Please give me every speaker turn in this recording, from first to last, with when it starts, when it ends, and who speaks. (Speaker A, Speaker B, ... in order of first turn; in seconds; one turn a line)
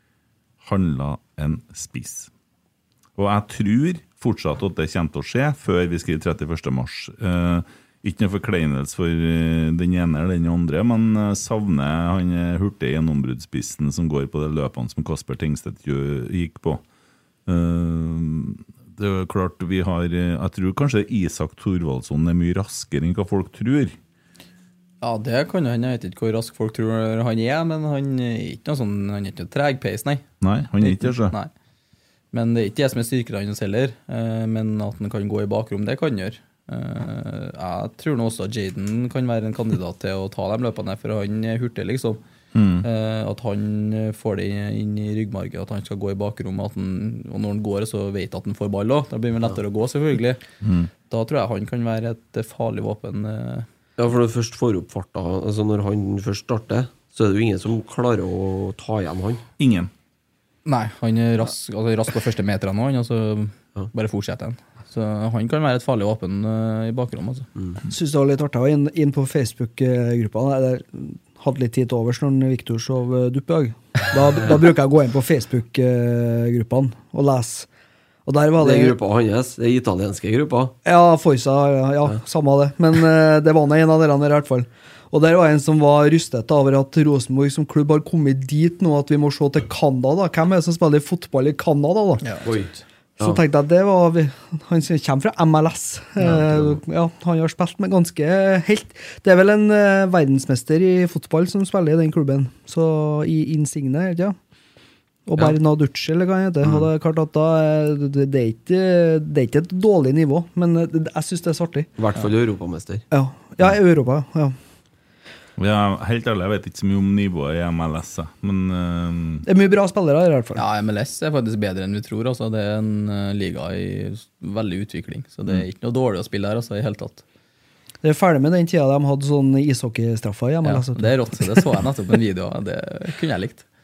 Speaker A: 0.6-2.3
Speaker A: 3.2-16.8
Speaker A: 17.4-23.9
Speaker B: 25.0-30.2
Speaker A: 30.4-31.3
Speaker B: 30.8-31.5
Speaker B: 32.3-42.2
Speaker A: 42.5-42.9
Speaker B: 42.8-50.4
Speaker A: 50.6-50.9
Speaker B: 51.1-53.7
Speaker C: 54.0-59.4
Speaker A: 59.6-59.9
Speaker B: 60.6-67.5
Speaker D: 67.9-77.7
Speaker D: 78.2-79.0
Speaker C: 78.6-80.7
Speaker D: 80.8-92.2
Speaker C: 92.5-93.4
Speaker D: 93.2-104.3
Speaker C: 96.2-96.8
Speaker D: 105.2-111.9
Speaker C: 106.6-106.9
Speaker C: 112.0-113.0
Speaker D: 113.1-114.5
Speaker A: 115.6-119.5
Speaker D: 119.4-120.6
Speaker B: 120.5-127.2
Speaker D: 128.0-131.4
Speaker B: 130.6-133.7